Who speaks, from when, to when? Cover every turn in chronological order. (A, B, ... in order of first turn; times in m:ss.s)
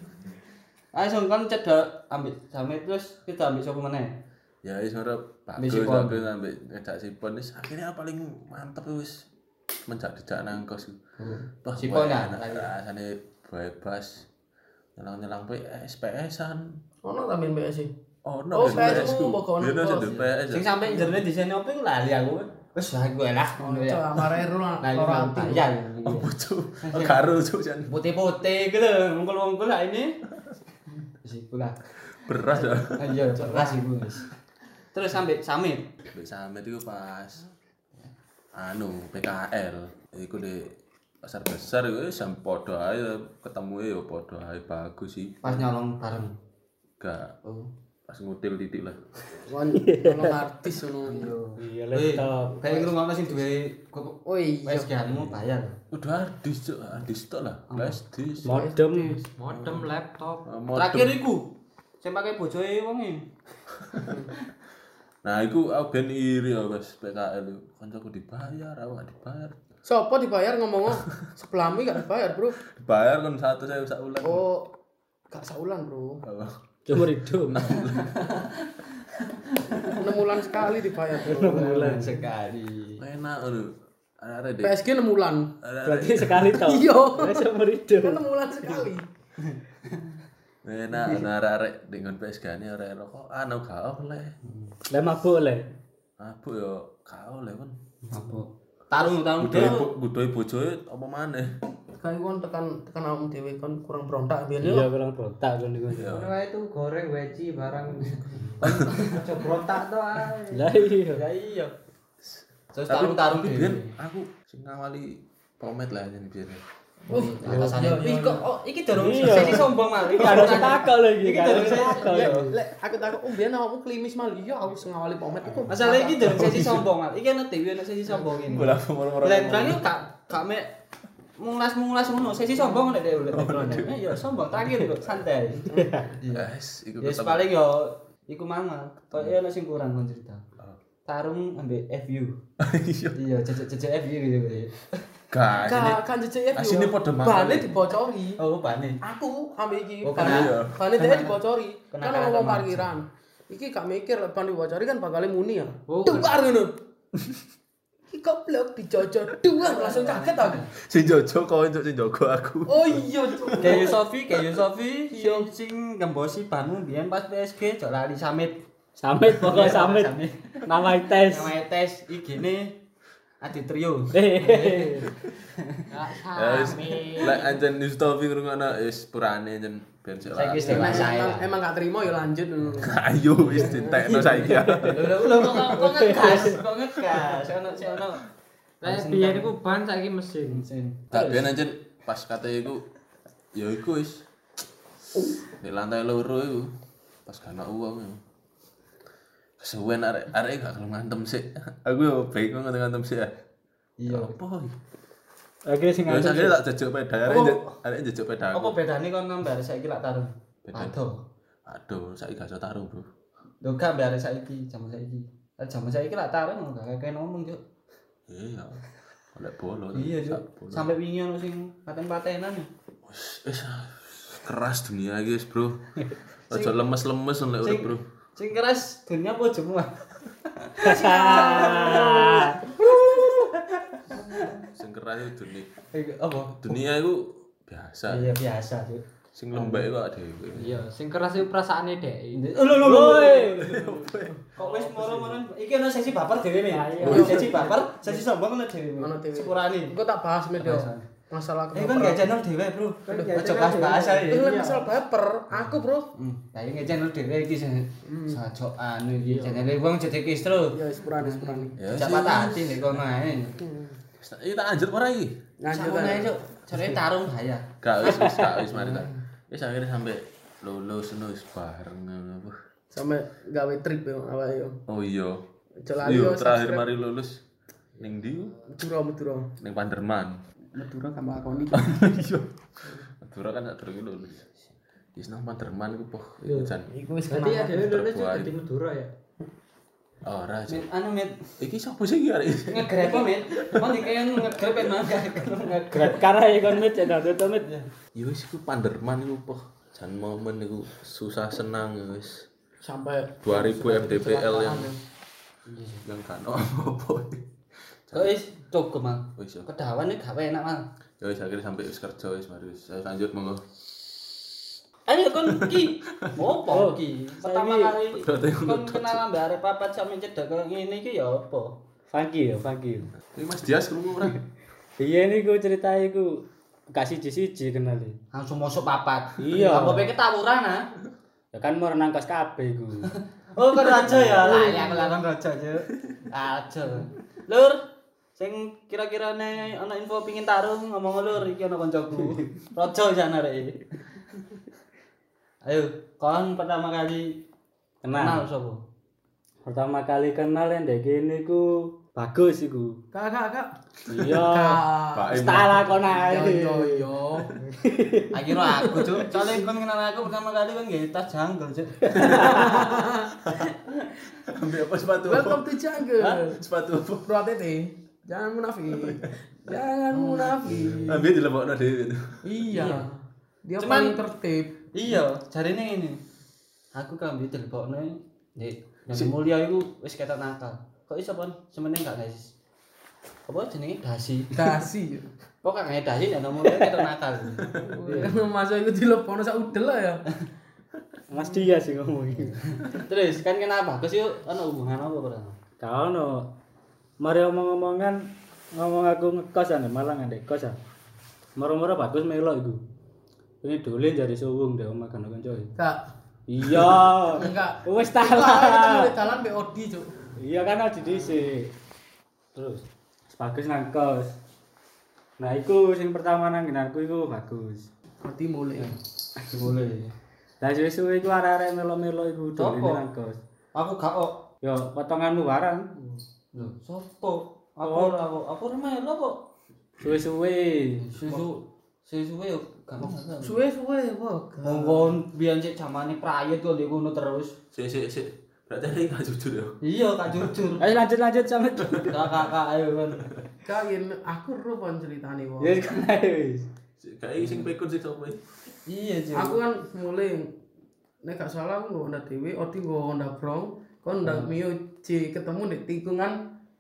0:00.9-0:04.2 A
0:04.6-0:09.3 B
0:05.6-0:06.2 A
0:09.9-0:11.0 B
0:11.2-0:12.7 A
0:11.6-0:14.3 B
0:15.0-0:16.8 B
0:17.0-0:17.9 C
0:18.2-0:20.7 B
0:18.5-0:20.2 C
0:18.6-0:19.2 A
0:20.1-0:24.3 A
0:23.6-0:25.7 C
0:24.8-0:27.2 A
0:26.0-0:27.9 B
0:27.9-0:30.2 A
0:31.2-0:31.8 A
0:32.1-0:33.2 B
0:32.9-0:34.3 A
0:33.3-0:33.9 C
0:34.9-0:35.9 A
0:36.1-0:37.5 B
0:38.6-0:45.6 B
0:45.4-0:46.4 A
0:47.0-0:47.4 B
0:47.4-0:47.7 A
0:48.1-0:49.0 B
0:49.4-0:51.3 C
0:49.8-0:50.4 D
0:51.0-0:55.8 A
0:51.6-0:52.6 D
0:52.6-0:53.4 C
0:54.3-0:54.9 C
0:55.9-0:58.6 B
0:57.7-0:58.0 A
0:58.4-0:59.2 D
0:58.5-0:59.2 C
0:59.4-1:00.5 E
0:59.5-0:59.9 B
1:00.4-1:01.2 B
1:00.8-1:03.3 A
1:04.0-1:04.3 C
1:05.2-1:09.6 B
1:09.9-1:12.6 C
1:12.7-1:14.5 B
1:14.2-1:14.7 C
1:15.3-1:16.2 C
1:16.2-1:18.4 B
1:16.9-1:17.6 D
1:18.0-1:18.7 A
1:19.4-1:20.1 A
1:19.9-1:21.9 C
1:21.1-1:22.3 D
1:21.3-1:23.0 A
1:23.0-1:24.8 B
1:24.6-1:25.6 C
1:25.6-1:26.6 B
1:25.8-1:28.8 D
1:26.6-1:29.0 C
1:29.4-1:30.2 A
1:30.6-1:34.4 B
1:34.4-1:34.7 A
1:34.9-1:35.7 D
1:36.2-1:37.8 B
1:38.1-1:39.9 A
1:39.4-1:41.6 B
1:42.0-1:44.9 C
1:44.6-1:46.1 D
1:45.9-1:46.4 B
1:46.1-1:50.7 E
1:48.6-1:49.4 A
1:50.5-1:51.2 D
1:51.1-1:51.8 A
1:52.2-1:56.6 B
1:52.7-1:54.0 A
1:57.1-2:02.5 A
1:57.1-1:58.4 C
1:57.4-1:57.8 D
1:58.9-2:02.6 D
1:59.2-2:00.7 C
2:01.8-2:06.5 C
2:05.7-2:10.7 A
2:06.2-2:06.8 B
2:08.3-2:09.9 B
2:11.4-2:16.5 A
2:13.3-2:15.2 B
2:15.7-2:16.1 D
2:16.3-2:17.5 B
2:17.0-2:20.4 A
2:21.0-2:22.4 A
2:22.6-2:23.2 B
2:23.1-2:25.0 A
2:25.3-2:26.0 B
2:25.6-2:28.4 C
2:26.5-2:27.8 B
2:28.4-2:29.0 A
2:29.0-2:36.8 C
2:30.0-2:31.4 A
2:30.2-2:30.8 B
2:31.9-2:33.0 A
2:35.9-2:36.3 E
2:38.1-2:40.7 C
2:39.6-2:40.7 A
2:40.8-2:43.8 B
2:42.7-2:44.0 C
2:43.6-2:48.6 A
2:45.1-2:45.5 C
2:49.0-2:51.6 D
2:49.4-2:50.7 A
2:51.2-2:52.8 A
2:53.4-2:55.9 A
2:54.1-2:55.1 D
2:55.9-2:57.5 E
2:56.3-3:01.2 B
3:00.3-3:01.5 A
3:00.7-3:03.0 C
3:02.8-3:05.2 B
3:03.5-3:08.2 A
3:03.5-3:04.1 C
3:04.5-3:05.0 D
3:05.7-3:06.6 D
3:08.8-3:09.5 A
3:08.8-3:10.6 E
3:10.5-3:11.3 A
3:11.1-3:12.9 B
3:13.6-3:14.2 B
3:15.5-3:16.7 B
3:17.3-3:18.2 B
3:19.6-3:23.3 B
3:24.0-3:24.4 A
3:24.1-3:24.8 B
3:25.7-3:26.6 D
3:26.0-3:28.8 B
3:27.3-3:27.7 A
3:28.5-3:31.2 A
3:30.6-3:31.0 B
3:31.7-3:33.1 B
3:33.6-3:37.6 A
3:38.3-3:40.9 B
3:39.9-3:42.7 A
3:43.0-3:45.8 B
3:46.5-3:48.0 B
3:46.5-3:46.8 A
3:47.6-3:49.9 A
3:50.6-3:54.6 A
3:50.8-3:52.6 D
3:50.8-3:53.5 C
3:54.7-3:55.7 B
3:55.9-3:56.8 A
3:56.5-3:58.4 B
3:58.1-3:59.9 A
3:59.4-4:00.8 B
4:00.6-4:03.2 E
4:02.3-4:03.7 A
4:02.8-4:03.8 D
4:03.5-4:04.4 B
4:04.6-4:10.0 A
4:04.6-4:05.0 E
4:06.7-4:07.8 D
4:07.0-4:07.5 B
4:07.1-4:08.2 C
4:09.0-4:12.3 C
4:10.6-4:11.1 A
4:11.7-4:14.6 A
4:13.1-4:13.4 C
4:13.1-4:14.3 D
4:13.2-4:14.8 E
4:14.3-4:16.1 C
4:15.6-4:23.6 A
4:18.0-4:18.4 C
4:19.3-4:19.6 D
4:20.7-4:21.8 C
4:21.8-4:23.0 B
4:23.6-4:24.0 C
4:24.2-4:25.4 B
4:25.6-4:26.3 C
4:25.7-4:27.7 A
4:27.8-4:32.6 B
4:28.7-4:29.2 A
4:32.9-4:34.8 C
4:34.9-4:35.4 B
4:35.8-4:36.8 C
4:36.0-4:37.4 B
4:38.0-4:38.7 B
4:38.7-4:39.5 C
4:39.6-4:40.4 B
4:40.7-4:42.1 C
4:41.7-4:42.5 B
4:43.1-4:44.5 B
4:45.2-4:46.9 B
4:46.9-4:47.9 C
4:47.3-4:49.1 E
4:47.7-4:48.6 B
4:50.2-4:50.9 B
4:50.7-4:51.5 A
4:51.6-4:54.7 B
4:52.7-4:56.2 A
4:55.9-4:57.7 D
4:57.6-4:57.9 A
4:58.1-5:02.4 B
5:02.8-5:05.0 C
5:03.4-5:05.0 B
5:05.7-5:06.0 A
5:06.0-5:07.5 B
5:08.1-5:08.4 B
5:08.1-5:10.9 A
5:09.4-5:09.7 B
5:11.2-5:13.6 B
5:15.1-5:21.8 A
5:15.6-5:16.4 B
5:16.7-5:18.0 D
5:18.2-5:19.2 B
5:22.1-5:23.1 D
5:23.3-5:24.4 B
5:25.0-5:28.2 D
5:28.3-5:30.9 A
5:29.4-5:30.1 D
5:31.5-5:33.1 D
5:33.5-5:37.8 A
5:34.0-5:35.0 D
5:34.5-5:34.8 C
5:38.4-5:43.8 A
5:45.6-5:47.4 A
5:48.0-5:48.4 D
5:48.1-5:48.8 A
5:49.7-5:53.0 D
5:53.1-5:57.5 C
5:54.1-5:57.1 D
5:55.1-5:56.0 B
5:57.7-5:58.4 D
5:58.3-6:02.8 A
6:02.1-6:02.9 D
6:02.2-6:03.5 C
6:03.4-6:03.7 B
6:04.5-6:07.3 B
6:05.2-6:06.6 C
6:07.3-6:11.3 C
6:08.9-6:09.3 B
6:10.1-6:11.2 A
6:11.1-6:12.5 B
6:12.4-6:14.8 C
6:12.7-6:13.1 A
6:13.8-6:14.2 A
6:14.9-6:16.2 A
6:16.9-6:22.5 A
6:23.5-6:24.7 A
6:24.6-6:25.3 C
6:25.6-6:27.8 A
6:27.7-6:30.2 C
6:28.1-6:28.4 D
6:31.3-6:32.8 D
6:31.4-6:31.7 C
6:32.5-6:35.6 A
6:35.8-6:36.5 D
6:37.2-6:40.8 D
6:41.6-6:42.8 D
6:43.6-6:45.7 D
6:45.8-6:46.1 C
6:46.5-6:49.1 D
6:47.3-6:50.3 C
6:50.4-6:51.7 D
6:51.1-6:51.5 C
6:52.6-6:54.4 D
6:55.4-6:57.9 D
6:58.2-6:58.9 C
6:58.8-7:00.1 A
7:00.6-7:03.4 D
7:02.6-7:03.0 A
7:03.7-7:04.5 A
7:04.6-7:06.2 D
7:06.5-7:09.5 A
7:07.8-7:08.2 D
7:10.0-7:11.1 D
7:11.0-7:13.6 A
7:13.4-7:15.2 C
7:14.6-7:17.6 A
7:17.7-7:19.8 B
7:19.8-7:20.8 A
7:20.8-7:22.3 D
7:22.0-7:23.3 A
7:23.6-7:25.8 C
7:25.6-7:26.7 D
7:27.0-7:28.4 B
7:28.9-7:29.6 A
7:29.3-7:30.5 C
7:31.2-7:36.4 C
7:34.2-7:34.6 D